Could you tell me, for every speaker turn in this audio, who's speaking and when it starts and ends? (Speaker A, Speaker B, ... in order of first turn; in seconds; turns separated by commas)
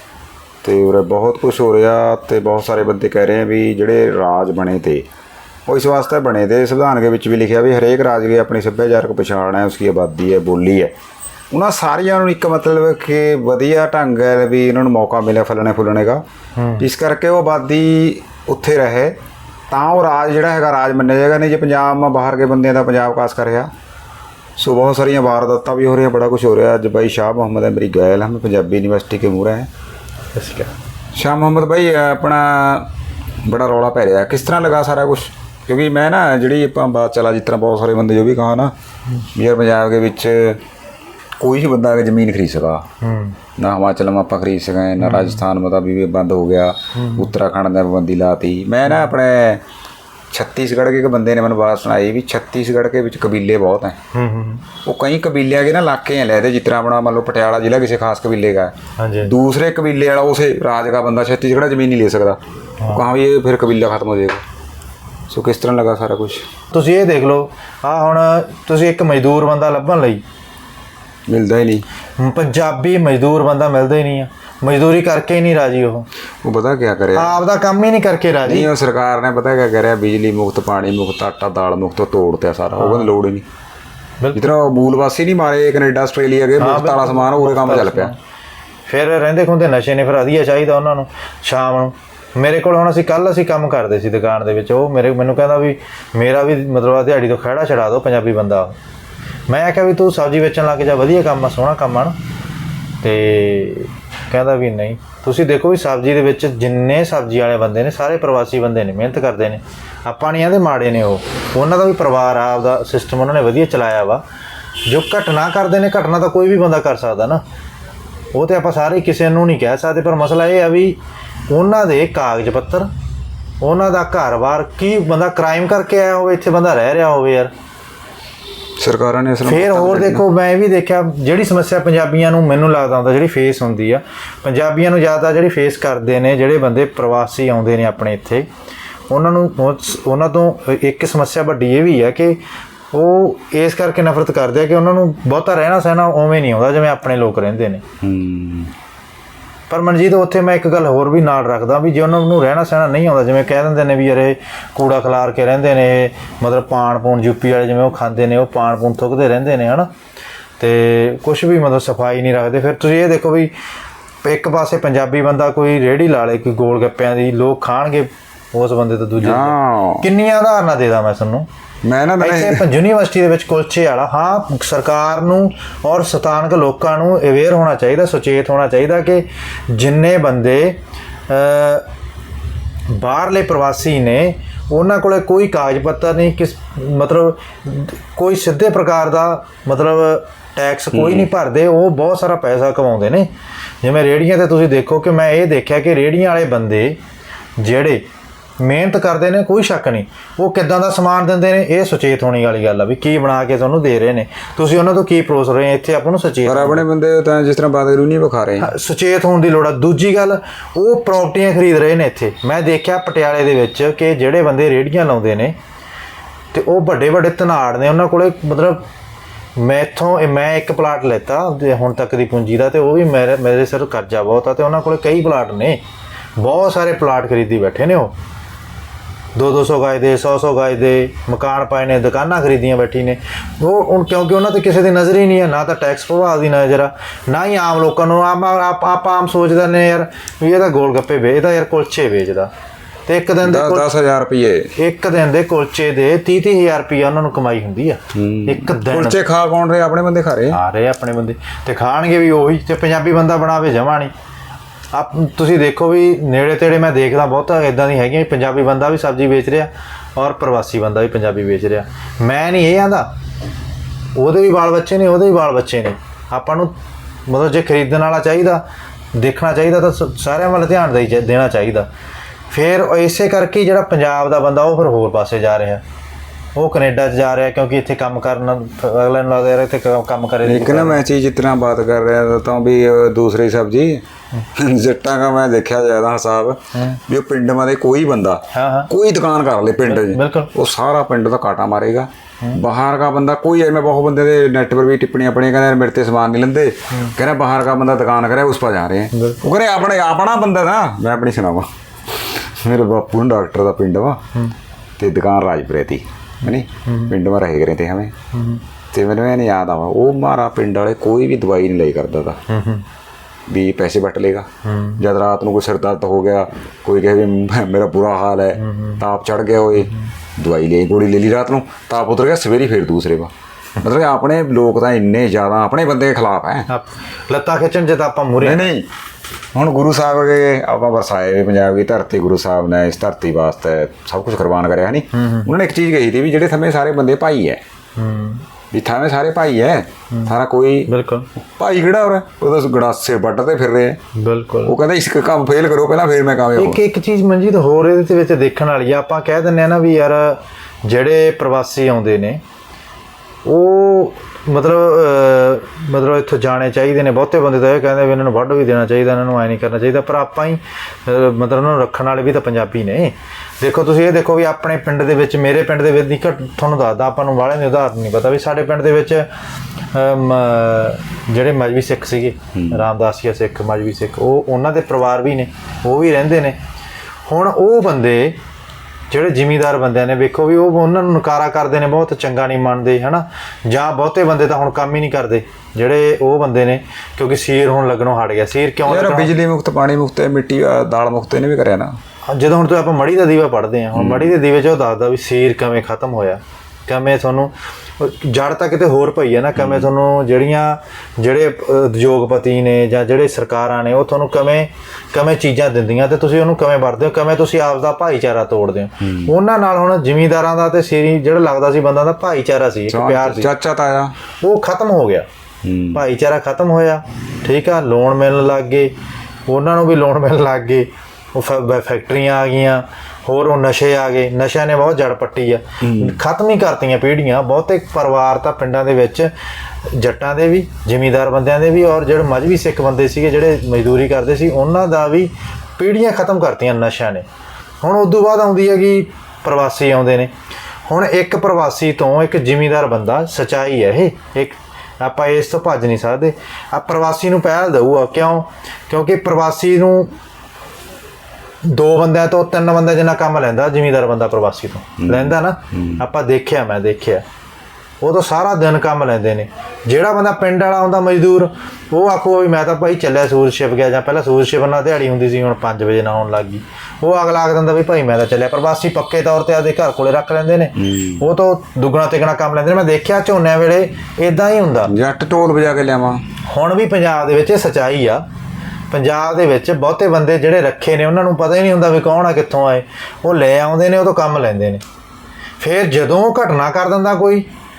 Speaker A: 0.6-5.0, Speaker A: 5.7-10.9, Speaker A: 11.5-16.2, Speaker B: 16.6-16.9, Speaker A: 16.8-19.2, Speaker A: 19.7-23.7, Speaker A: 24.6-29.7, Speaker B: 30.3-30.7, Speaker A: 31.1-32.9, Speaker A: 33.4-38.7, Speaker A: 39.3-40.6, Speaker A: 41.4-42.9, Speaker B: 43.0-43.4, Speaker A: 43.5-49.6, Speaker B: 45.0-45.4, Speaker B: 46.9-47.3, Speaker B: 48.9-49.1, Speaker A: 50.3-54.0, Speaker B: 54.1-54.7, Speaker A: 54.8-58.7, Speaker B: 59.0-59.3, Speaker A: 59.2-64.4, Speaker B: 62.8-63.1, Speaker A: 65.3-66.5, Speaker B: 66.7-70.2, Speaker A: 71.3-71.8, Speaker B: 72.2-76.1, Speaker A: 76.4-77.3, Speaker B: 77.1-78.7, Speaker A: 78.4-83.4, Speaker B: 82.7-83.2, Speaker B: 84.2-84.6, Speaker A: 84.3-88.1, Speaker B: 86.6-88.2, Speaker B: 88.9-98.7, Speaker B: 99.5-102.2, Speaker B: 103.0-114.2, Speaker B: 114.8-117.4, Speaker B: 118.3-121.0, Speaker B: 121.5-122.9, Speaker B: 123.6-127.5, Speaker A: 128.8-130.2, Speaker B: 129.4-138.5, Speaker B: 139.1-142.4, Speaker B: 142.9-147.8, Speaker A: 148.0-148.7, Speaker B: 149.7-159.9, Speaker B: 160.6-163.5, Speaker B: 164.2-171.5, Speaker A: 169.2-170.1, Speaker A: 171.8-172.6, Speaker B: 172.2-180.8, Speaker B: 181.3-181.8, Speaker B: 182.9-193.3, Speaker A: 190.9-191.3, Speaker B: 193.8-197.0, Speaker B: 197.6-198.0, Speaker B: 198.6-206.8, Speaker A: 206.4-208.7, Speaker B: 208.6-215.6, Speaker B: 216.5-218.8, Speaker B: 219.6-225.8, Speaker B: 226.4-228.1, Speaker B: 229.3-242.5, Speaker B: 243.1-243.9, Speaker A: 243.4-244.7, Speaker B: 244.8-249.2, Speaker A: 248.1-250.6, Speaker B: 250.5-254.1, Speaker B: 254.9-263.1, Speaker B: 264.1-266.7, Speaker B: 267.3-271.9, Speaker B: 272.5-275.8, Speaker B: 276.6-281.0, Speaker A: 280.4-304.2, Speaker B: 286.7-287.0, Speaker B: 288.5-288.9, Speaker B: 289.8-290.5, Speaker B: 299.1-299.4, Speaker A: 305.0-308.1, Speaker B: 306.4-307.1, Speaker B: 308.3-308.6, Speaker A: 308.9-312.4, Speaker B: 312.5-312.8, Speaker A: 313.5-314.5, Speaker B: 314.6-315.0, Speaker A: 315.0-326.7, Speaker B: 318.6-319.0, Speaker B: 326.7-328.6, Speaker A: 328.4-328.9, Speaker A: 329.5-337.6, Speaker B: 335.1-335.5, Speaker B: 338.0-338.4, Speaker A: 338.7-340.9, Speaker B: 340.9-341.3, Speaker A: 341.6-344.0, Speaker B: 344.1-344.8, Speaker A: 344.6-346.8, Speaker B: 346.5-352.4, Speaker B: 353.4-369.3, Speaker B: 369.9-376.6, Speaker A: 372.5-372.8, Speaker B: 377.3-378.4, Speaker B: 379.1-389.3, Speaker A: 388.8-391.9, Speaker B: 392.3-413.5, Speaker A: 393.9-394.3, Speaker A: 399.6-399.9, Speaker A: 409.0-409.3, Speaker A: 412.9-414.1, Speaker B: 414.4-415.3, Speaker A: 415.6-416.0, Speaker B: 415.9-418.9, Speaker B: 419.5-429.3, Speaker A: 425.8-426.1, Speaker B: 429.9-437.2, Speaker B: 437.8-440.3, Speaker B: 440.9-450.1, Speaker B: 451.6-457.2, Speaker A: 455.0-456.0, Speaker B: 458.0-474.9, Speaker A: 470.8-471.2, Speaker A: 474.9-476.2, Speaker B: 476.5-478.2, Speaker B: 478.9-484.8, Speaker B: 485.6-487.5